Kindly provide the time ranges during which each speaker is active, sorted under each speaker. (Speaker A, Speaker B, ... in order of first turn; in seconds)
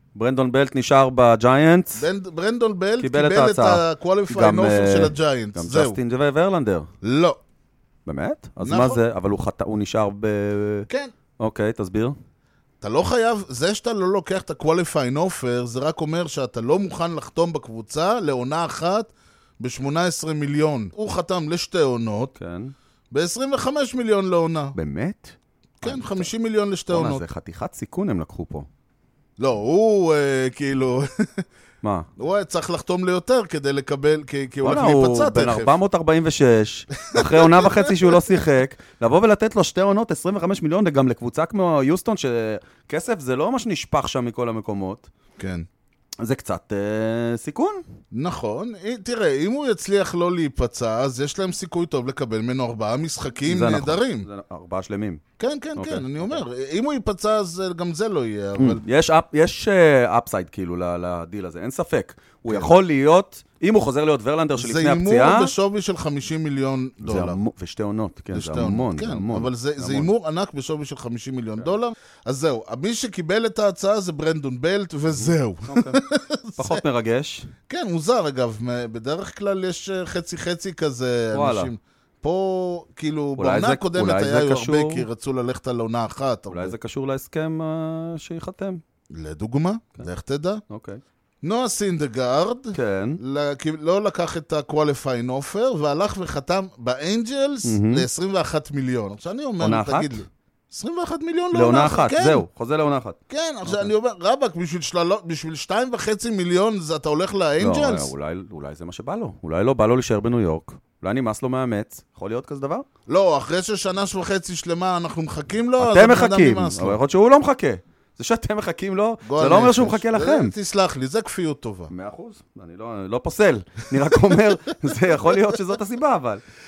Speaker A: 0.2-2.1, 3.0-6.9, 8.1-10.9, 11.4-12.2, 22.4-22.7, 24.8-26.3, 26.9-28.7, 31.8-32.1, 34.6-45.1, 46.2-47.8, 53.5-55.2, 55.8-56.4, 58.6-65.5, 67.0-70.1, 75.1-76.0, 76.6-77.5, 81.3-81.7, 83.4-85.1, 86.5-88.8, 90.7-91.0, 92.7-93.2, 97.7-98.1, 99.6-100.2, 101.5-103.9, 107.6-112.9, 115.8-120.5, 121.9-126.4
Speaker B: 2.0-6.0, 7.0-7.4, 8.6-9.0, 12.8-22.3, 23.1-24.7, 25.8-27.2, 29.4-31.4, 32.2-35.8, 37.0-38.4, 45.4-45.7, 48.1-54.3, 55.4-58.8, 64.6-67.4, 68.3-76.8, 77.7-86.7, 89.1-90.6, 91.4-102.5, 103.3-108.1, 113.1-117.0, 119.2-121.9